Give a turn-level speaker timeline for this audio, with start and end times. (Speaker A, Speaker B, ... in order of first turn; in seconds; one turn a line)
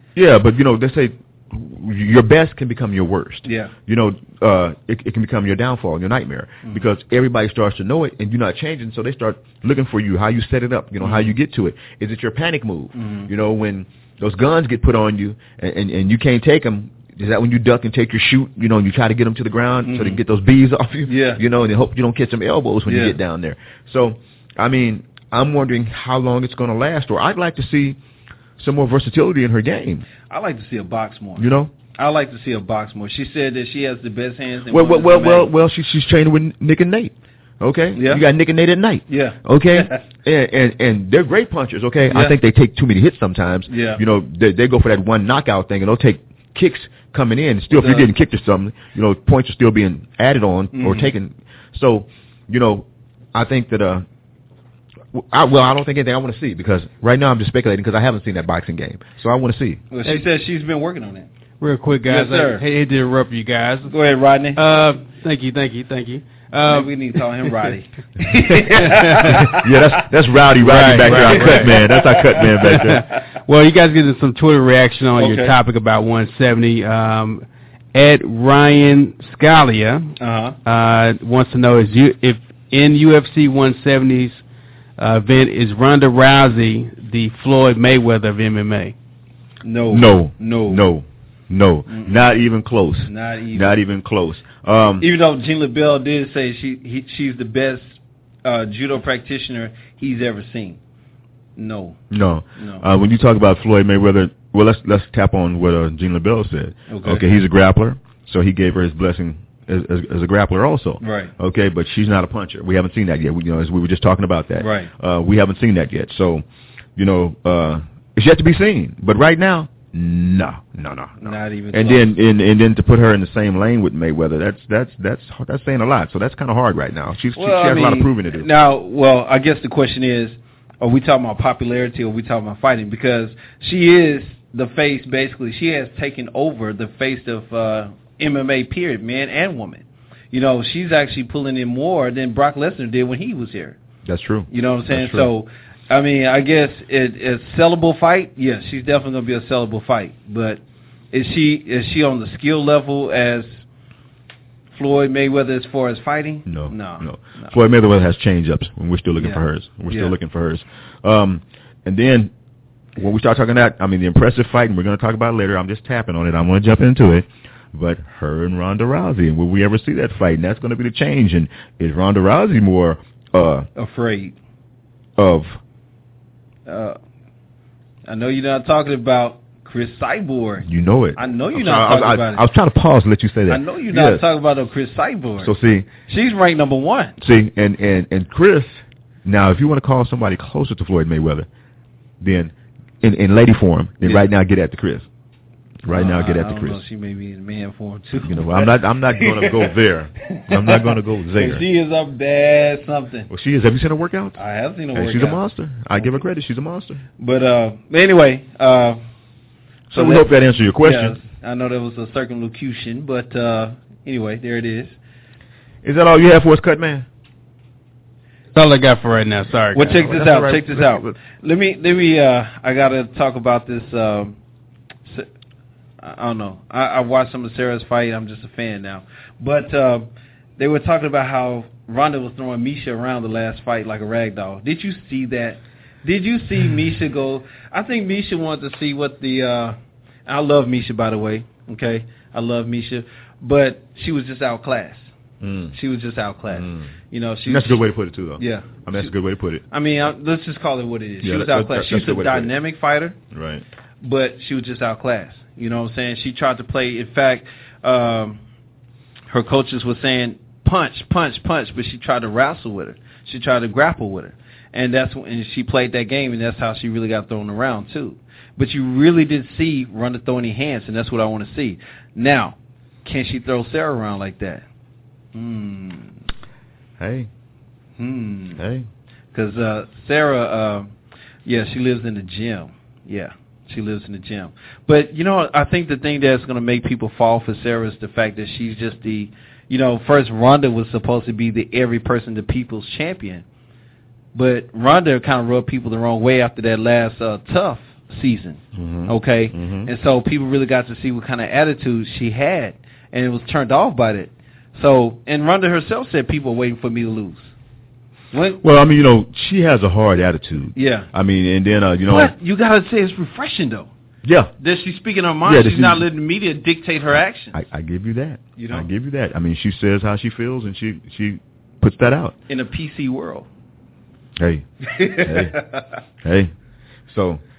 Speaker A: 0.1-28.0
Speaker B: 3.4-3.7
Speaker B: 11.0-11.3
Speaker B: 12.9-13.3
Speaker B: 19.8-20.2
Speaker B: 21.1-21.4
Speaker B: 22.9-23.2
Speaker A: 28.6-30.1
Speaker B: 30.3-35.5
Speaker A: 31.4-31.7
Speaker A: 34.7-54.0
Speaker B: 37.9-38.2
Speaker B: 39.1-40.0
Speaker B: 42.1-42.4
Speaker B: 43.7-44.0
Speaker B: 47.7-48.1
Speaker B: 50.7-51.1
Speaker A: 55.1-59.8
Speaker B: 59.9-61.3
Speaker C: 61.6-64.0
Speaker B: 62.0-62.6
Speaker B: 63.9-64.6
Speaker C: 64.5-67.7
Speaker B: 66.6-69.7
Speaker C: 68.7-69.5
Speaker A: 69.2-73.0
Speaker C: 70.6-71.8
Speaker B: 70.9-73.2
Speaker C: 72.4-80.1
Speaker B: 75.2-75.5
Speaker B: 80.2-80.5
Speaker C: 80.6-84.4
Speaker C: 85.0-88.9
Speaker B: 89.6-90.8
Speaker A: 89.9-95.1
Speaker B: 91.9-92.2
Speaker B: 93.0-93.8
Speaker B: 95.0-100.8
Speaker B: 101.5-102.0
Speaker A: 102.1-116.4
Speaker B: 102.5-102.8
Speaker B: 106.9-107.3
Speaker B: 111.0-111.3
Speaker B: 114.6-114.9
Speaker A: 117.0-128.5
Speaker B: 121.2-122.1
Speaker B: 127.3-143.8
Speaker A: 144.0-145.3
Speaker B: 144.5-150.6
Speaker B: 151.1-153.6
Speaker B: 154.7-157.5
Speaker A: 156.4-162.3
Speaker B: 159.2-160.2
Speaker A: 162.9-173.7
Speaker B: 173.8-174.3
Speaker A: 175.2-175.6
Speaker B: 176.7-177.0
Speaker B: 178.1-182.4
Speaker A: 180.6-184.2
Speaker B: 183.5-185.5
Speaker A: 185.4-185.9
Speaker B: 186.1-187.2
Speaker A: 187.2-191.5
Speaker A: 192.2-195.1
Speaker B: 194.0-194.3
Speaker A: 195.8-196.8
Speaker B: 195.9-203.3
Speaker A: 198.2-201.6
Speaker A: 203.3-204.4
Speaker B: 204.4-205.4
Speaker A: 204.9-207.0
Speaker B: 206.0-206.2
Speaker B: 207.2-209.0
Speaker A: 209.9-211.2
Speaker B: 209.9-210.3
Speaker B: 210.8-214.9
Speaker A: 215.8-217.1
Speaker C: 218.5-220.0
Speaker B: 219.7-224.3
Speaker A: 219.8-221.2
Speaker B: 226.0-245.1
Speaker A: 245.4-245.8
Speaker B: 245.7-247.9
Speaker A: 246.5-246.9
Speaker A: 247.4-249.6
Speaker B: 248.4-249.1
Speaker B: 249.7-253.2
Speaker A: 251.2-252.5
Speaker A: 253.3-253.6
Speaker B: 254.0-258.4
Speaker B: 259.3-274.6
Speaker B: 275.3-276.2
Speaker A: 277.0-277.3
Speaker B: 278.0-278.6
Speaker A: 278.6-278.9
Speaker B: 279.3-280.9
Speaker B: 281.4-293.4
Speaker B: 294.3-307.5
Speaker A: 298.7-299.9
Speaker B: 308.3-308.6
Speaker A: 308.6-312.3
Speaker B: 310.7-311.1
Speaker B: 312.1-313.9
Speaker A: 314.2-314.5
Speaker B: 314.6-317.6
Speaker A: 315.4-316.1
Speaker A: 317.5-322.3
Speaker B: 318.6-318.9
Speaker B: 322.5-323.5
Speaker A: 324.4-325.6
Speaker B: 324.8-325.9
Speaker A: 326.2-326.5
Speaker A: 327.1-327.4